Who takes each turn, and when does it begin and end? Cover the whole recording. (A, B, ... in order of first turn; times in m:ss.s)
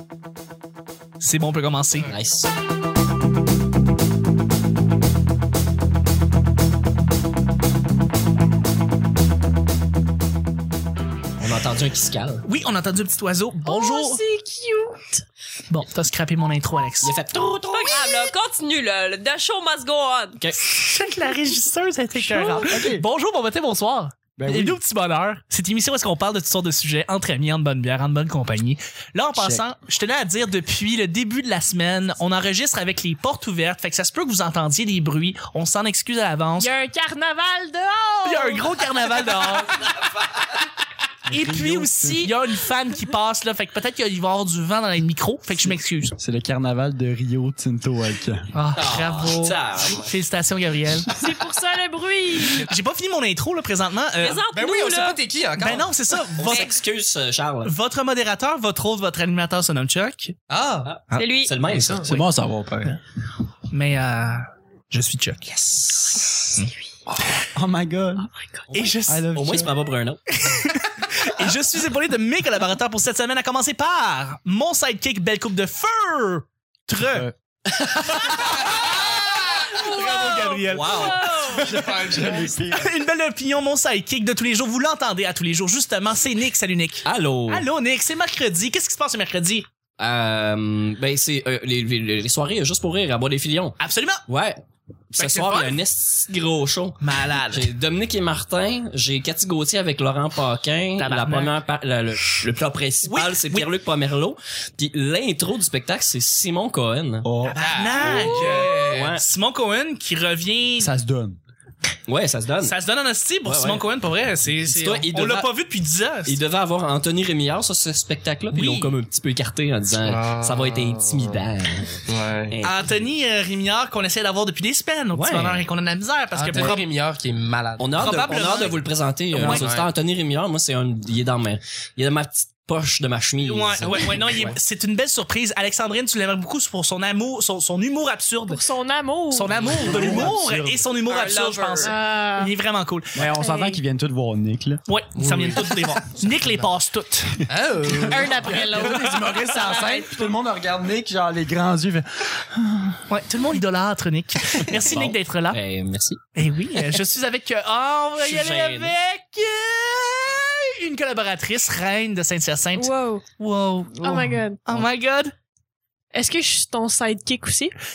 0:01.2-0:02.1 A
0:02.1-0:02.5 B
0:11.4-0:12.4 B
0:12.4-0:14.2 A
0:13.6-0:15.2 C
0:15.7-0:17.2 A
0:17.0-0:18.3 B
0:17.7-0:20.4 D
0:20.7-0:36.7 A
0:22.2-0:23.0 E
0:24.4-0:24.8 E
0:29.4-0:29.6 E
0:36.6-0:38.7 C
0:38.2-0:39.9 A
0:39.8-0:40.4 B
0:41.3-0:42.3 E
0:41.3-0:46.1 A
0:46.2-0:48.5 E
0:48.5-0:51.1 A
0:48.7-0:50.0 B
0:51.1-0:52.6 C
0:52.6-0:54.4 A
0:54.2-0:55.2 D
0:54.5-0:55.9 F
0:55.6-0:56.8 A
0:56.4-0:57.7 B
0:57.6-1:00.4 A
1:00.5-1:00.9 F
1:00.8-1:02.2 B
1:01.1-1:01.5 D
1:01.7-1:03.0 E
1:01.7-1:02.0 F
1:03.7-1:06.7 A
1:07.4-1:08.3 E
1:08.7-1:10.2 B
1:08.7-1:09.3 A
1:09.1-1:09.7 E
1:10.3-1:17.3 A
1:18.1-1:18.5 B
1:18.2-1:19.1 A
1:18.8-1:19.7 F
1:19.7-1:21.7 C
1:19.7-1:21.9 A
1:20.7-1:21.3 B
1:21.5-1:22.7 F
1:21.6-1:22.9 E
1:22.7-1:29.7 A
1:27.0-1:27.7 B
1:30.0-1:47.3 B
1:33.8-1:34.2 A
1:35.2-1:35.8 A
1:37.0-1:37.7 A
1:41.0-1:41.5 A
1:43.0-1:43.7 A
1:47.2-1:47.6 E
1:47.4-1:50.9 A
1:47.6-1:49.1 F
1:48.0-1:49.2 B
1:50.8-1:51.4 E
1:52.1-1:52.8 B
1:52.6-1:56.4 A
1:53.4-1:53.8 B
1:54.6-1:55.5 B
1:56.2-2:03.0 B
1:58.5-1:58.9 A
2:00.0-2:01.4 F
2:02.0-2:02.6 F
2:02.6-2:06.8 A
2:05.1-2:05.6 B
2:06.3-2:08.5 F
2:07.8-2:14.6 B
2:08.0-2:08.8 A
2:09.3-2:09.7 A
2:09.4-2:09.9 F
2:13.4-2:18.6 A
2:18.5-2:19.5 C
2:19.3-2:23.3 A
2:19.7-2:20.8 E
2:21.1-2:21.9 D
2:21.8-2:22.5 C
2:23.1-2:25.6 E
2:23.4-2:23.8 C
2:24.9-2:27.4 A
2:25.2-2:26.2 F
2:27.5-2:29.0 F
2:27.8-2:33.0 E
2:28.1-2:30.1 C
2:33.1-2:35.6 A
2:34.9-2:36.2 B
2:36.3-2:45.3 A
2:38.2-2:39.0 B
2:42.8-2:43.2 C
2:44.0-2:44.6 C
2:46.1-2:47.7 C